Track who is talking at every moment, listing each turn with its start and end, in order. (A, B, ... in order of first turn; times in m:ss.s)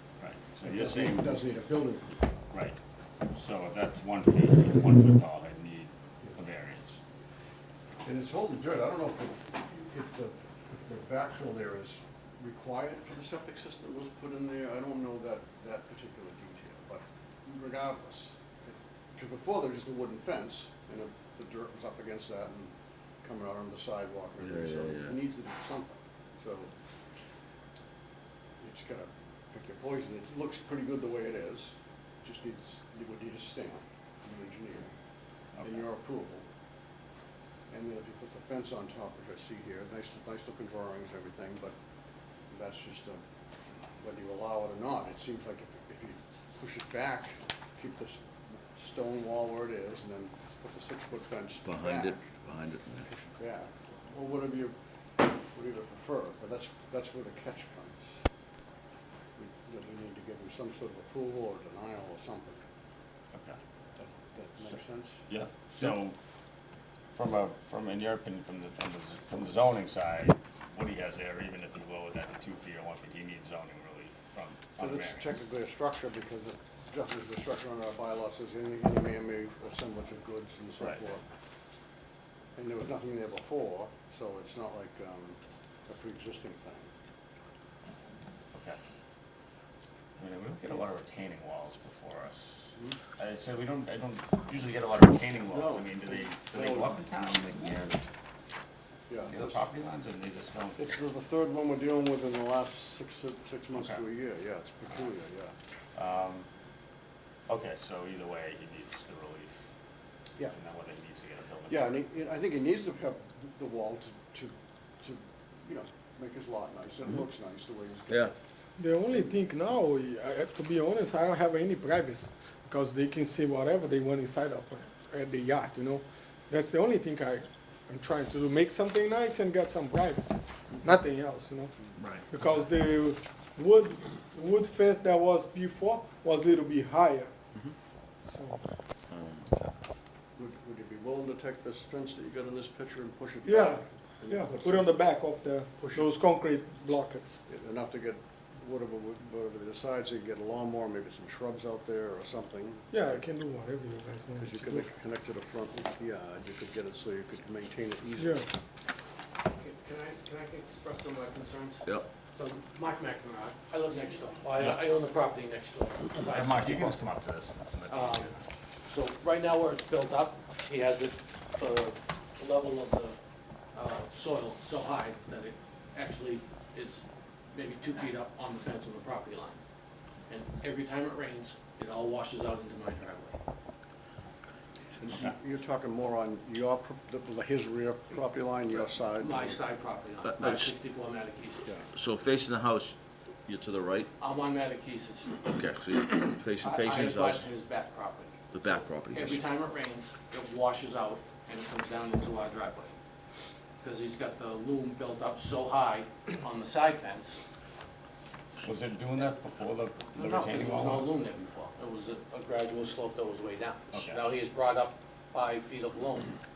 0:00.2-0:01.4 A
0:00.6-0:02.3 B
0:02.5-0:02.8 A
0:03.3-0:07.0 A
0:08.0-0:26.8 B
0:24.4-0:25.1 C
0:28.6-0:34.9 B
0:35.6-0:35.8 A
0:35.6-0:36.4 B
0:37.7-0:41.7 B
0:42.5-0:43.2 B
0:44.0-0:52.2 B
0:51.6-0:53.1 C
0:53.0-0:54.7 B
0:55.4-0:58.2 B
0:59.4-1:02.6 B
1:03.3-1:03.6 A
1:04.0-1:05.2 B
1:05.3-1:06.2 A
1:07.1-1:15.3 A
1:14.8-1:21.2 B
1:20.8-1:21.1 A
1:22.6-1:26.9 B
1:28.5-1:28.8 A
1:30.2-1:38.0 A
1:35.5-1:37.0 B
1:39.1-1:39.6 B
1:39.2-1:41.0 A
1:40.8-1:45.5 B
1:43.7-1:44.0 A
1:45.9-1:46.5 A
1:47.5-1:49.7 A
1:50.5-1:52.0 A
1:51.7-1:58.3 B
1:58.8-2:17.3 D
2:12.0-2:12.5 A
2:18.3-2:18.6 D
2:19.1-2:19.7 C
2:20.4-2:25.0 B
2:23.4-2:27.4 D
2:25.8-2:26.0 B
2:27.5-2:32.9 B
2:32.9-2:34.9 D
2:34.4-2:38.4 B
2:38.2-2:38.4 D
2:39.5-2:47.0 E
2:44.6-2:44.8 A
2:46.2-2:48.4 A
2:47.9-2:48.3 E
2:48.8-2:53.2 E
2:53.7-2:59.6 E
3:00.3-3:03.4 E
3:05.0-3:09.6 B
3:09.2-3:11.7 E
3:10.2-3:10.7 C
3:11.9-3:14.1 C
3:14.2-3:23.0 E
3:15.4-3:17.5 C
3:18.5-3:19.4 C
3:23.8-3:27.4 E
3:28.6-3:31.1 A
3:30.1-3:36.4 E
3:33.9-3:34.2 A